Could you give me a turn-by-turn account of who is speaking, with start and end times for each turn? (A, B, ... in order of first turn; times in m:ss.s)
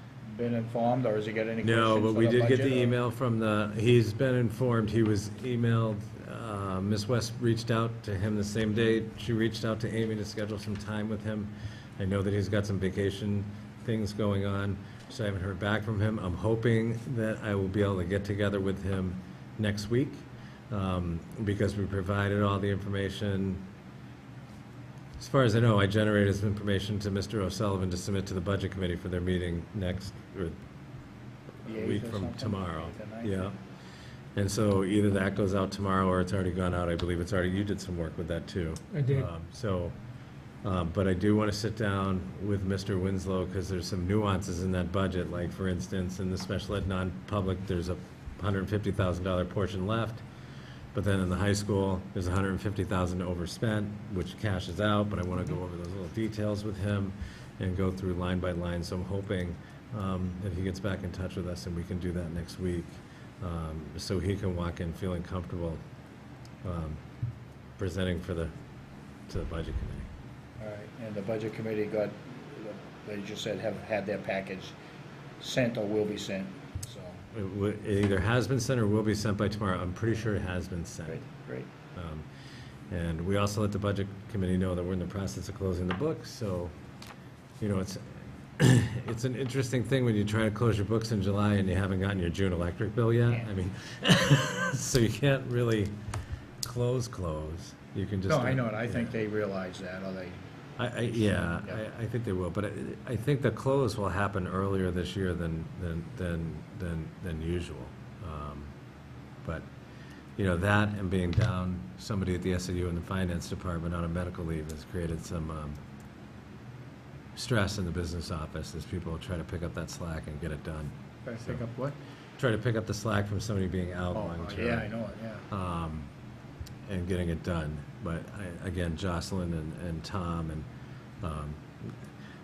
0:00.2-0:02.9 A
0:01.6-0:23.6 B
0:25.2-0:30.6 B
0:31.6-0:33.6 A
0:31.6-0:33.6 B
0:34.3-0:40.0 B
0:40.6-0:50.2 B
0:50.9-1:05.8 B
1:06.6-1:07.0 B
1:07.8-1:08.5 B
1:09.3-1:10.1 B
1:10.6-1:14.8 A
1:15.4-1:17.2 A
1:17.3-1:21.2 B
1:21.1-1:21.7 A
1:21.9-1:22.3 B
1:22.9-1:26.7 B
1:27.6-1:36.0 B
1:36.6-1:39.1 B
1:38.3-1:40.4 A
1:40.8-1:48.7 B
1:41.4-1:41.8 A
1:50.4-1:55.8 B
1:57.3-2:01.6 B
2:01.2-2:02.0 A
2:02.4-2:04.9 B
2:04.1-2:05.4 A
2:05.5-2:06.1 B
2:06.9-2:10.7 B
2:11.2-2:11.9 B